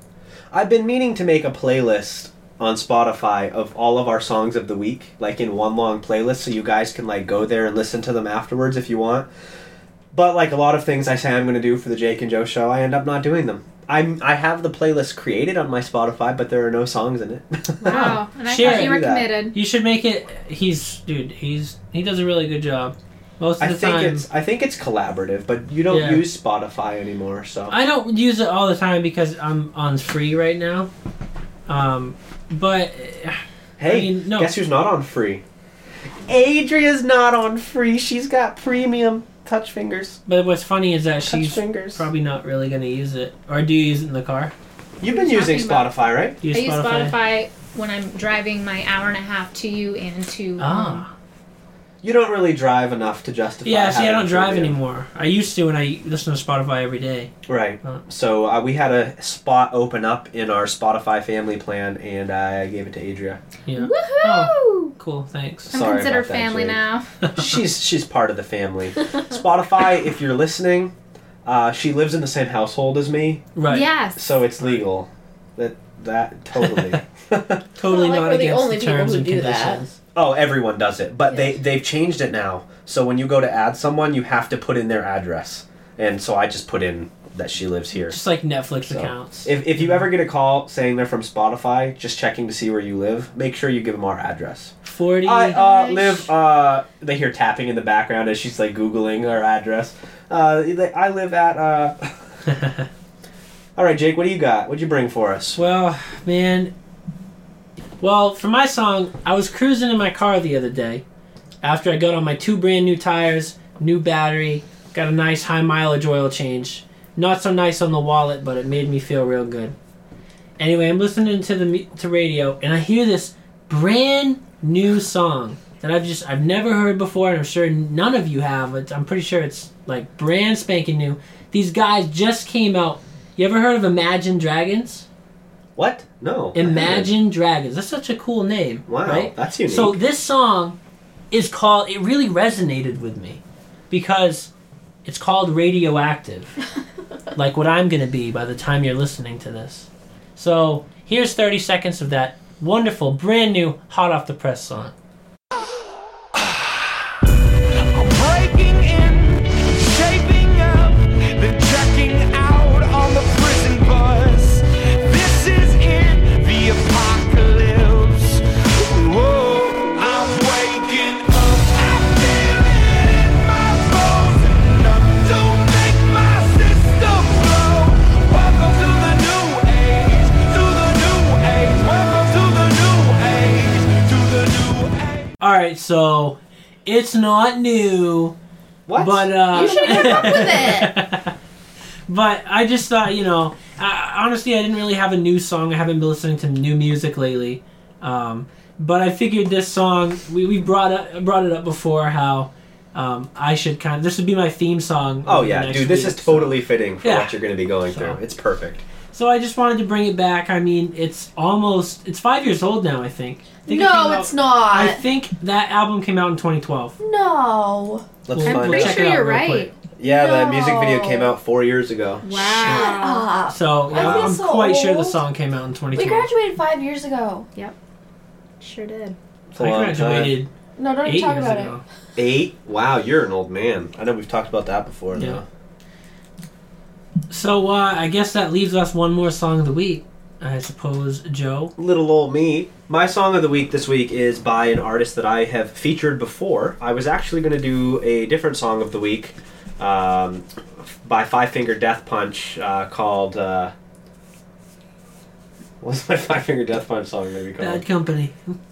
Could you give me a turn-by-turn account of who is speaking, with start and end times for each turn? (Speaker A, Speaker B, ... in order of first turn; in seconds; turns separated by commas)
Speaker A: 0.5-9.3, Speaker A: 10.1-19.3, Speaker B: 17.8-19.6, Speaker C: 17.9-24.2, Speaker A: 23.6-27.8, Speaker C: 25.9-26.3, Speaker C: 27.7-30.9, Speaker C: 31.7-34.5, Speaker A: 33.8-35.4, Speaker A: 36.3-40.2, Speaker C: 40.3-44.5, Speaker A: 41.2-42.1, Speaker A: 45.0-46.4, Speaker B: 45.0-46.0, Speaker C: 46.4-47.1, Speaker B: 46.5-51.1, Speaker C: 50.6-51.1, Speaker A: 52.0-54.8, Speaker C: 53.6-57.3, Speaker A: 57.5-63.4, Speaker C: 63.7-65.7, Speaker B: 63.8-64.9, Speaker A: 65.7-66.8, Speaker B: 65.7-67.2, Speaker A: 67.3-70.9, Speaker A: 71.5-73.5, Speaker C: 73.6-73.9, Speaker B: 73.7-74.2, Speaker A: 74.2-77.6, Speaker C: 76.6-77.0, Speaker C: 77.8-80.0, Speaker D: 77.8-79.8, Speaker A: 80.2-88.2, Speaker C: 88.1-90.1, Speaker A: 88.9-102.1, Speaker C: 94.8-96.2, Speaker B: 95.6-95.9, Speaker C: 102.5-102.8, Speaker A: 103.8-105.6, Speaker C: 105.6-106.7, Speaker C: 108.0-111.0, Speaker C: 111.6-119.8, Speaker C: 120.6-135.1, Speaker A: 135.8-137.1, Speaker C: 136.6-140.8, Speaker A: 138.9-140.0, Speaker C: 141.3-144.5, Speaker C: 145.1-146.6, Speaker C: 147.3-154.9, Speaker E: 157.9-185.3, Speaker C: 185.4-188.4, Speaker A: 188.9-190.7, Speaker C: 189.0-191.3, Speaker D: 189.5-190.9, Speaker C: 192.1-208.2, Speaker A: 205.3-208.8, Speaker C: 209.1-217.0, Speaker D: 213.7-215.0, Speaker D: 217.0-218.1, Speaker A: 218.3-219.1, Speaker C: 218.3-219.7, Speaker B: 218.4-219.7, Speaker A: 220.0-222.2, Speaker D: 220.0-221.3, Speaker B: 222.2-223.3, Speaker D: 222.4-225.2, Speaker C: 222.6-222.9, Speaker C: 223.5-226.3, Speaker A: 223.9-224.3, Speaker D: 225.9-227.5, Speaker B: 228.6-229.2, Speaker A: 229.5-230.4, Speaker C: 229.6-230.5, Speaker D: 230.8-231.8, Speaker C: 231.0-231.8, Speaker A: 232.2-235.4, Speaker C: 235.2-235.4, Speaker C: 237.3-241.7, Speaker A: 241.8-253.7, Speaker A: 255.8-257.8, Speaker C: 257.6-258.6